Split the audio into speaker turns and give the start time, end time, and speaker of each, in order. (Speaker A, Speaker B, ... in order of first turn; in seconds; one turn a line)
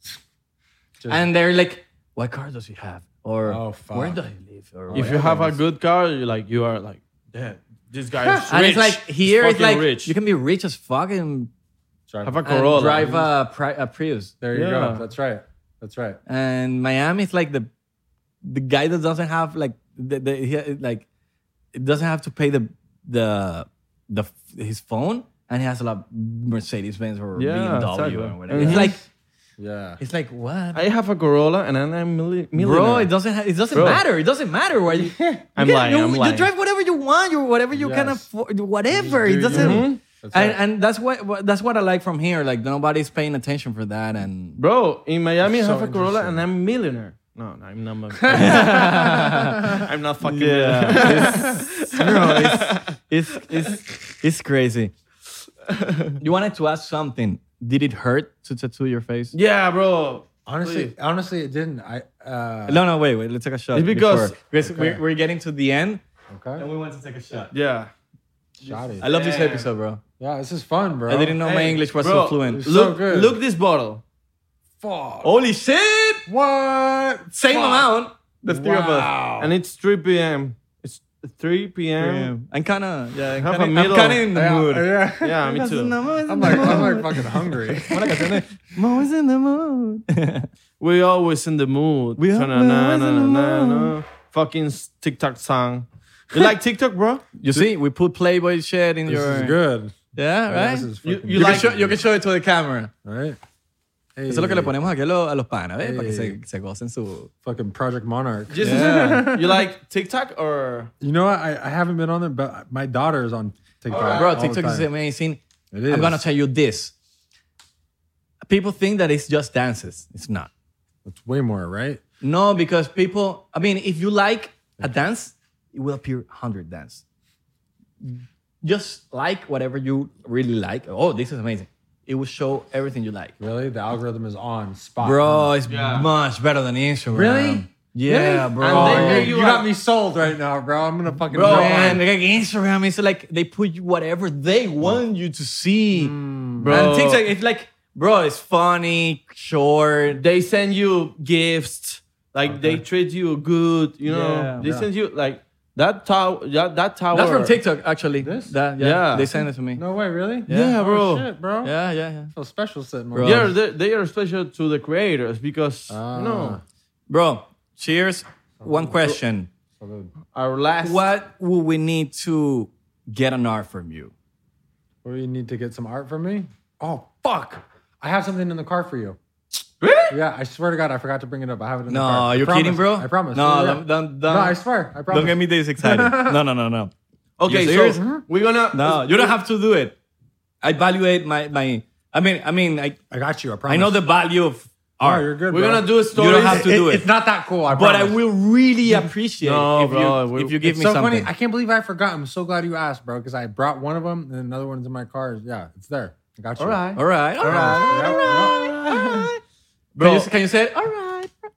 Speaker A: 1.0-1.3
Speaker B: 1.1-5.5
Speaker A: 3.5-4.2
Speaker A: 4.9-5.5
Speaker C: 4.9-10.1
Speaker B: 8.5-11.5
Speaker A: 12.1-13.3
Speaker C: 12.2-13.1
Speaker B: 12.4-14.3
Speaker A: 14.4-16.2
Speaker C: 14.5-15.0
Speaker B: 16.3-17.7
Speaker B: 18.4-21.1
Speaker B: 21.7-29.0
Speaker C: 27.3-28.9
Speaker A: 28.5-28.9
Speaker A: 29.6-30.0
Speaker B: 30.0-30.8
Speaker C: 30.7-33.1
Speaker B: 32.5-44.6
Speaker C: 33.7-34.0
Speaker A: 34.9-35.5
Speaker C: 35.5-36.5
Speaker A: 37.7-38.3
Speaker A: 38.9-40.6
Speaker C: 39.5-40.0
Speaker C: 44.6-49.0
Speaker A: 45.4-46.4
Speaker B: 48.3-54.9
Speaker A: 48.3-49.8
Speaker C: 49.6-52.9
Speaker A: 50.9-52.4
Speaker C: 55.8-56.1
Speaker B: 56.2-59.3
Speaker C: 59.3-60.9
Speaker A: 60.5-62.8
Speaker B: 62.7-66.0
Speaker C: 63.7-64.3
Speaker A: 64.6-65.0
Speaker A: 66.3-66.6
Speaker B: 66.6-67.5
Speaker C: 67.5-67.9
Speaker C: 68.6-69.7
Speaker A: 68.6-69.1
Speaker B: 69.0-70.0
Speaker A: 70.2-71.4
Speaker B: 71.1-72.7
Speaker C: 71.4-74.0
Speaker A: 72.5-73.4
Speaker A: 74.8-75.3
Speaker B: 75.2-76.2
Speaker A: 76.3-77.9
Speaker B: 77.3-79.1
Speaker A: 78.5-79.5
Speaker C: 79.4-82.3
Speaker B: 82.0-90.5
Speaker C: 83.4-84.3
Speaker A: 84.3-85.6
Speaker C: 85.2-86.8
Speaker A: 86.3-88.4
Speaker C: 90.8-97.3
Speaker B: 92.2-93.9
Speaker B: 97.4-99.5
Speaker A: 99.1-102.0
Speaker B: 100.1-102.9
Speaker C: 101.0-101.7
Speaker A: 103.0-103.4
Speaker A: 104.1-104.8
Speaker B: 104.3-107.3
Speaker A: 105.8-106.3
Speaker A: 107.4-109.7
Speaker C: 108.5-110.9
Speaker B: 108.5-109.3
Speaker A: 111.0-114.9
Speaker C: 113.9-114.4
Speaker B: 114.0-116.9
Speaker A: 115.7-116.2
Speaker B: 118.4-120.5
Speaker A: 121.0-122.0
Speaker B: 122.2-127.0
Speaker B: 128.0-133.3
Speaker A: 133.4-135.5
Speaker B: 135.0-139.3
Speaker C: 135.7-136.1
Speaker A: 137.1-142.0
Speaker C: 138.6-139.7
Speaker B: 141.3-146.1
Speaker C: 141.3-142.0
Speaker A: 145.9-146.9
Speaker C: 146.6-147.2
Speaker B: 146.7-150.2
Speaker C: 150.2-157.6
Speaker A: 152.5-152.8
Speaker B: 154.1-154.7
Speaker A: 154.6-154.9
Speaker B: 157.1-159.8
Speaker A: 158.2-158.6
Speaker C: 158.8-159.3
Speaker A: 159.8-161.7
Speaker B: 160.5-160.8
Speaker C: 160.5-161.3
Speaker B: 161.6-162.3
Speaker A: 162.3-163.5
Speaker B: 163.1-163.5
Speaker C: 163.2-166.6
Speaker A: 165.9-166.6
Speaker B: 167.1-169.5
Speaker A: 168.6-169.0
Speaker A: 169.8-170.1
Speaker C: 170.3-171.1
Speaker B: 170.8-174.1
Speaker A: 175.0-179.2
Speaker C: 179.8-180.1
Speaker A: 180.1-186.4
Speaker B: 181.9-186.9
Speaker C: 187.4-189.3
Speaker B: 187.4-188.1
Speaker A: 187.9-188.2
Speaker B: 188.7-190.0
Speaker B: 190.6-193.0
Speaker A: 193.1-194.0
Speaker B: 193.7-195.3
Speaker A: 195.0-198.2
Speaker C: 195.5-196.7
Speaker B: 196.1-197.1
Speaker B: 197.7-201.3
Speaker C: 198.9-200.6
Speaker A: 200.6-206.8
Speaker C: 206.6-208.3
Speaker B: 206.9-209.4
Speaker A: 207.4-209.3
Speaker C: 209.9-210.3
Speaker B: 210.0-211.3